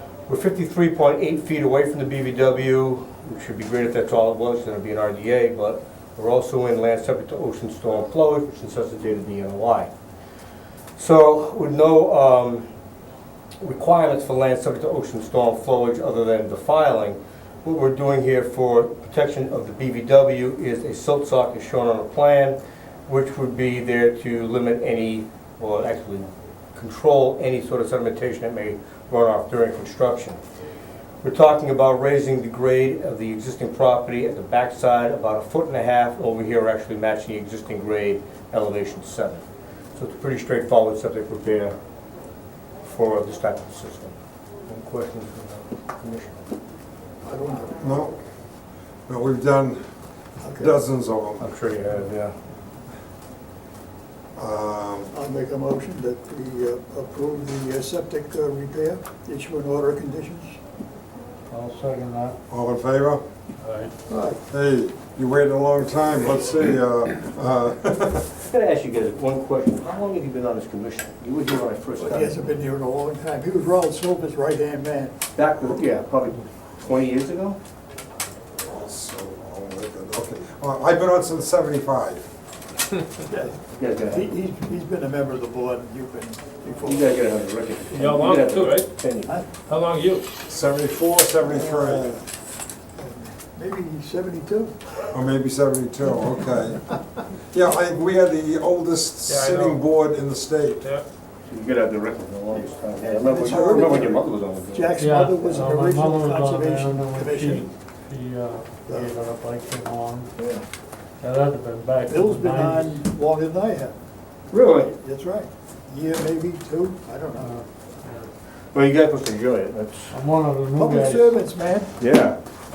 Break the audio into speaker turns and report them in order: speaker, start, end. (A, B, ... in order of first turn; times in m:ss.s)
0:00.3-0:09.9 A
0:11.0-0:12.7 A
0:13.6-0:30.4 A
0:31.2-0:39.4 A
0:39.9-0:41.7 A
0:42.8-0:44.1 A
0:44.7-0:46.4 A
0:47.2-0:48.0 B
0:47.8-0:48.2 C
0:49.1-0:49.8 C
0:50.4-0:50.8 B
0:50.6-0:51.5 C
0:51.4-0:52.3 A
0:54.4-0:55.1 C
0:55.1-1:00.6 B
1:01.5-1:02.4 D
1:02.5-1:03.2 C
1:03.6-1:03.9 D
1:04.1-1:04.4 B
1:04.5-1:08.3 C
1:08.5-1:12.4 A
1:12.0-1:15.2 B
1:15.3-1:17.6 A
1:18.6-1:22.2 C
1:23.2-1:27.2 B
1:23.7-1:24.3 A
1:26.8-1:29.3 A
1:27.9-1:28.8 E
1:29.7-1:30.2 E
1:30.5-1:32.2 C
1:31.4-1:32.2 B
1:33.0-1:34.8 B
1:35.1-1:37.0 C
1:37.5-1:40.8 C
1:39.3-1:39.8 E
1:41.5-1:45.0 A
1:43.0-1:47.7 B
1:45.0-1:50.3 D
1:48.9-1:49.1 B
1:50.4-1:50.6 A
1:51.2-1:53.0 D
1:52.1-1:53.9 B
1:54.5-1:54.9 A
1:54.7-1:57.5 B
1:57.4-1:58.3 D
1:58.7-2:00.1 A
2:00.1-2:01.3 D
2:00.8-2:01.9 B
2:02.0-2:02.4 A